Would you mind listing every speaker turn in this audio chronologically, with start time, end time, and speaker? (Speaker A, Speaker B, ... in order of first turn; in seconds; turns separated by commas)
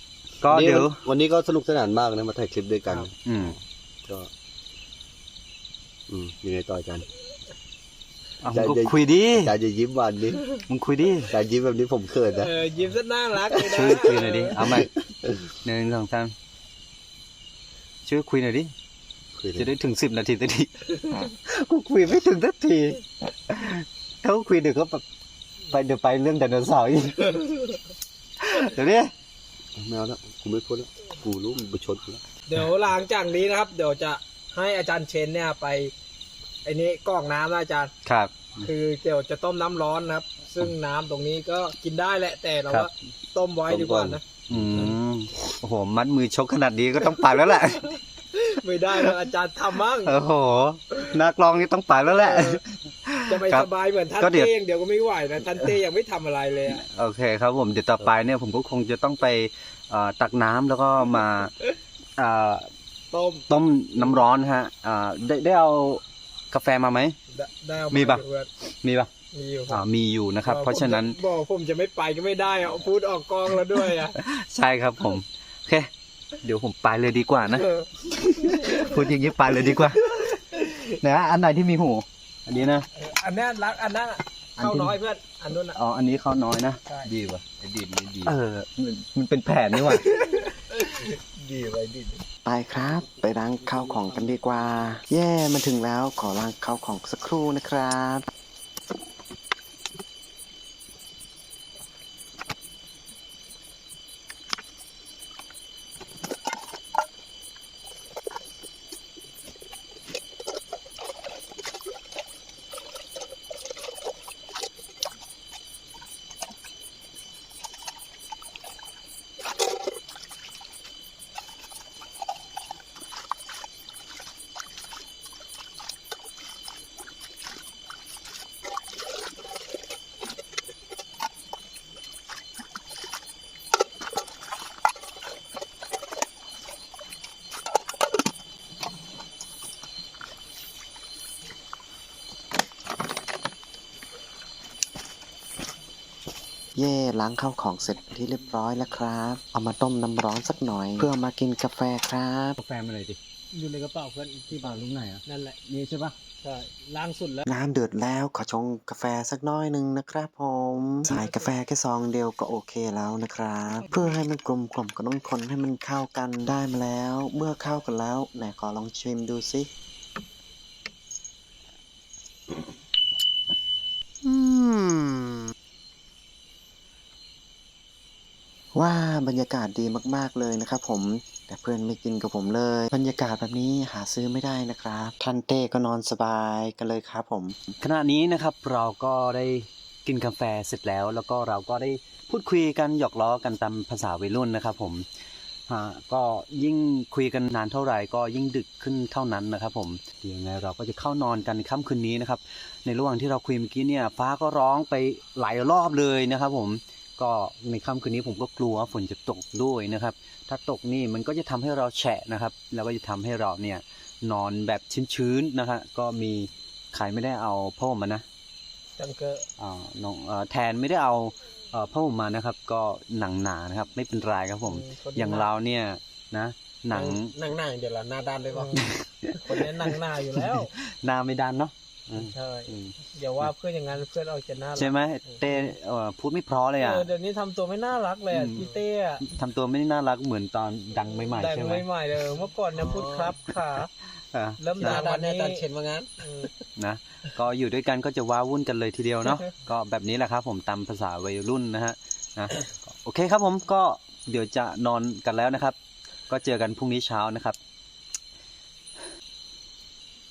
Speaker A: 0.4-1.0, Speaker B: 0.4-4.3, Speaker A: 3.2-3.6, Speaker B: 6.1-7.1, Speaker A: 8.4-9.6, Speaker B: 8.5-10.5, Speaker A: 10.7-11.3, Speaker B: 11.3-12.5, Speaker C: 12.2-14.6, Speaker B: 13.4-15.3, Speaker A: 13.6-14.9, Speaker A: 15.6-16.3, Speaker A: 18.1-18.7, Speaker B: 19.4-19.7, Speaker A: 19.6-25.0, Speaker A: 25.7-27.4, Speaker C: 27.3-27.8, Speaker A: 28.4-29.1, Speaker B: 29.8-32.2, Speaker C: 32.5-35.9, Speaker C: 36.6-37.9, Speaker A: 38.1-38.7, Speaker C: 38.6-44.4, Speaker B: 43.7-44.9, Speaker A: 44.5-48.0, Speaker C: 48.3-50.2, Speaker A: 50.0-54.5, Speaker C: 52.1-52.6, Speaker C: 53.3-56.9, Speaker A: 56.7-61.5, Speaker A: 62.2-62.7, Speaker C: 63.1-63.5, Speaker A: 63.5-67.2, Speaker C: 67.3-68.5, Speaker A: 67.9-68.2, Speaker A: 68.8-69.1, Speaker C: 69.3-69.8, Speaker A: 69.7-71.2, Speaker C: 70.5-74.2, Speaker A: 74.1-82.9, Speaker C: 77.5-79.0, Speaker C: 83.0-85.8, Speaker A: 84.6-85.0, Speaker A: 85.8-86.8, Speaker C: 86.9-87.1, Speaker B: 87.0-88.3, Speaker A: 88.2-90.1, Speaker B: 89.9-92.2, Speaker D: 92.5-98.2, Speaker B: 93.6-94.9, Speaker D: 146.8-152.6, Speaker A: 152.6-153.2, Speaker C: 153.5-155.6, Speaker A: 154.5-156.2, Speaker C: 156.4-157.5, Speaker D: 157.5-169.7, Speaker C: 161.1-161.5, Speaker D: 178.7-187.6, Speaker A: 187.8-195.1, Speaker A: 195.7-218.2, Speaker C: 219.0-219.5, Speaker A: 219.6-227.3, Speaker C: 224.7-225.5, Speaker E: 226.9-228.7, Speaker C: 228.5-228.8, Speaker A: 228.7-233.5, Speaker C: 229.4-230.7, Speaker C: 232.2-234.9, Speaker A: 234.8-237.1, Speaker C: 236.8-239.3, Speaker A: 238.3-238.7, Speaker A: 239.2-241.9, Speaker C: 241.2-243.9, Speaker A: 244.3-245.1, Speaker C: 244.6-245.7, Speaker E: 244.9-246.1, Speaker C: 246.2-246.5, Speaker A: 246.8-255.8, Speaker A: 256.3-257.6